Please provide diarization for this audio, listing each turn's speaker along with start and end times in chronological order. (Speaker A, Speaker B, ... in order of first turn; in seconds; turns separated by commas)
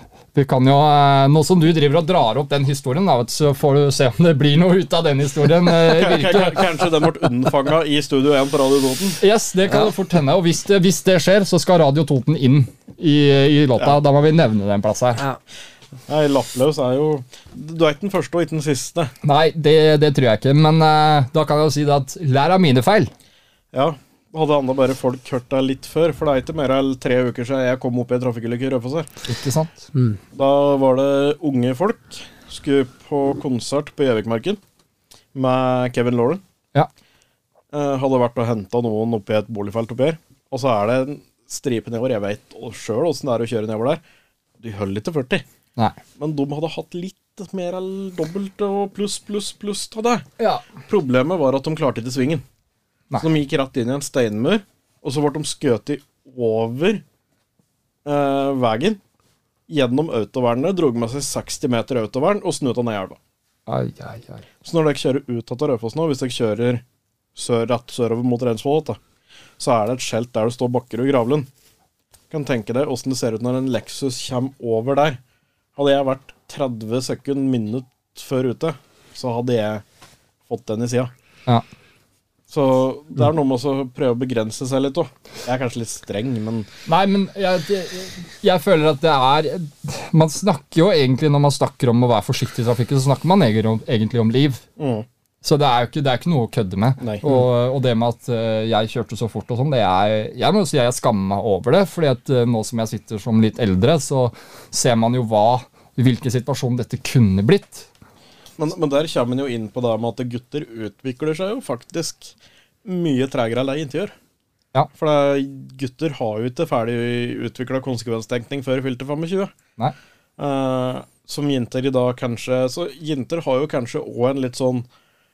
Speaker A: 0.3-6.8, Speaker B: 5.8-9.2, Speaker A: 9.2-15.2, Speaker B: 16.1-19.1, Speaker A: 19.2-23.1, Speaker B: 23.7-29.1, Speaker A: 29.3-29.9, Speaker B: 30.3-34.6, Speaker B: 35.3-36.4, Speaker B: 37.7-44.0, Speaker B: 44.6-45.4, Speaker B: 46.2-50.3, Speaker B: 50.9-52.4, Speaker B: 53.2-57.0, Speaker B: 58.0-59.0, Speaker B: 59.7-63.2, Speaker A: 63.7-64.4, Speaker B: 64.6-66.8, Speaker B: 67.4-69.0, Speaker B: 69.6-71.5, Speaker B: 72.3-75.2, Speaker B: 75.8-79.8, Speaker B: 80.5-81.1, Speaker B: 82.5-86.7, Speaker A: 86.9-94.6, Speaker B: 94.8-95.0, Speaker A: 95.4-107.9, Speaker B: 97.0-97.4, Speaker B: 108.6-112.3, Speaker B: 112.8-114.1, Speaker B: 115.0-119.5, Speaker B: 120.4-124.9